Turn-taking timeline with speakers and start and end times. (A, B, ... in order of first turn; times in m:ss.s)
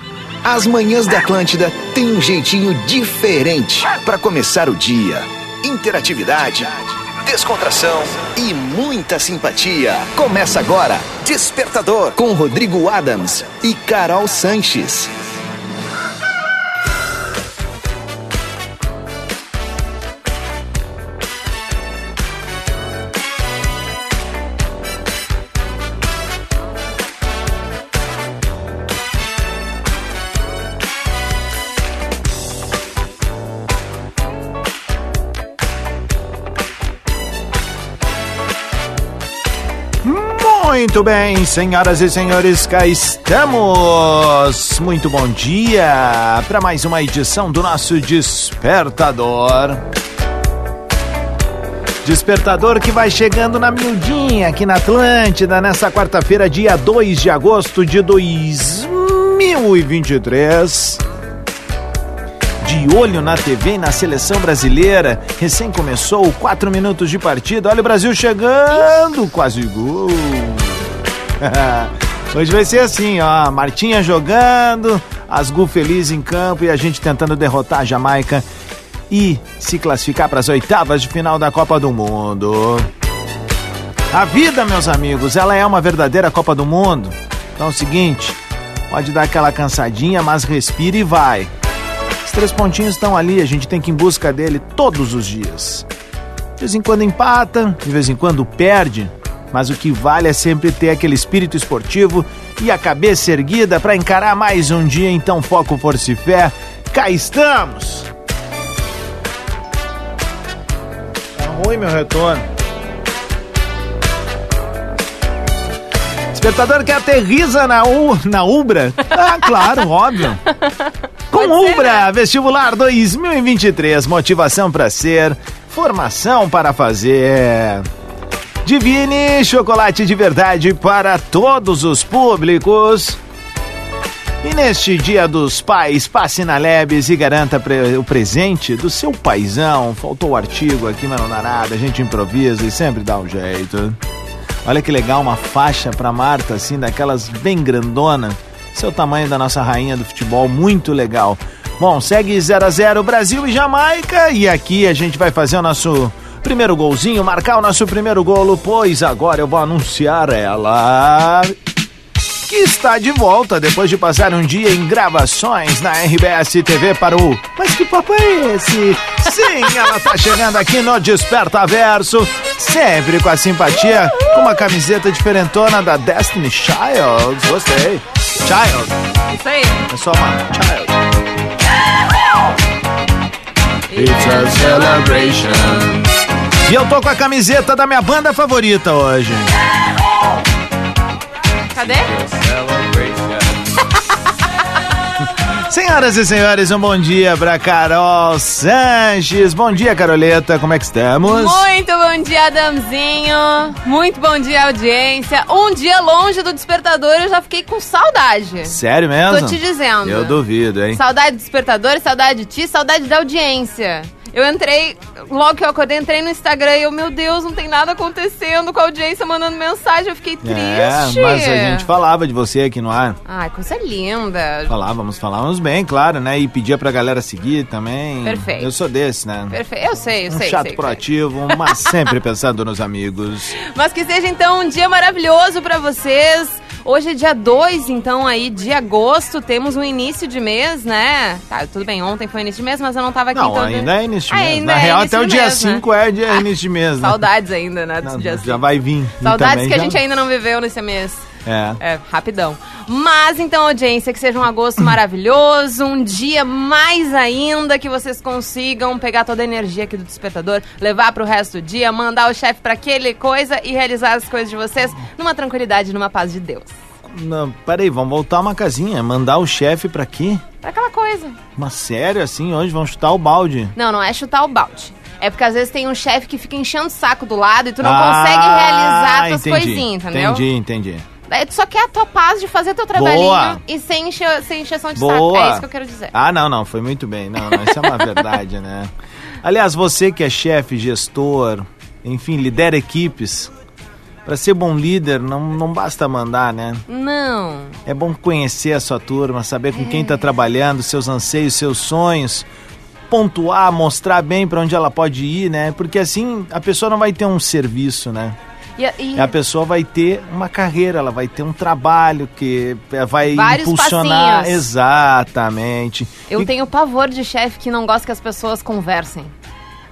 0:00.4-0:15.1 A
0:40.0-0:49.8 B
0:52.0-1:01.0 B
1:02.6-1:10.8 B
1:11.4-1:18.4 B
1:19.1-1:22.9 B
1:24.1-1:31.5 B
1:32.2-1:35.9 B
1:36.6-1:48.1 B
1:51.4-1:52.4 B
1:56.3-2:00.4 B
2:01.3-2:07.8 B
2:01.3-2:02.0 C
2:08.6-2:13.2 B
2:14.4-2:24.0 B
2:24.6-2:41.6 B
2:42.5-2:59.0 B
2:59.3-2:59.8 C
2:59.9-3:01.0 B
3:03.9-3:06.0 C
3:03.9-3:05.8 B
3:06.6-3:09.5 B
3:11.7-3:12.1 C
3:15.7-3:21.7 B
3:21.2-3:28.8 C
3:28.6-3:31.0 B
3:29.3-3:30.4 C
3:30.9-3:41.8 C
3:40.4-3:43.2 B
3:43.2-3:44.7 C
3:44.7-3:49.6 B
3:48.2-3:48.7 C
3:49.5-3:51.0 C
3:50.3-3:53.5 B
3:53.6-4:06.4 C
4:03.3-4:07.2 B
4:07.0-4:08.6 C
4:08.0-4:10.0 B
4:09.2-4:11.3 C
4:11.4-4:11.8 B
4:11.8-4:26.7 C
4:27.0-4:30.4 B
4:30.6-4:31.4 C
4:31.6-4:33.7 B
4:33.8-4:40.4 C
4:37.8-4:41.0 B
4:41.3-4:46.1 C
4:42.9-4:43.6 B
4:45.0-4:48.9 B
4:49.4-4:53.5 B
4:54.2-4:56.8 B
4:56.9-4:57.8 C
4:57.8-5:02.5 B
4:59.7-5:00.2 C
5:03.1-5:08.4 B
5:08.8-5:09.3 C
5:09.2-5:16.5 B
5:13.3-5:14.6 C
5:16.3-5:19.3 C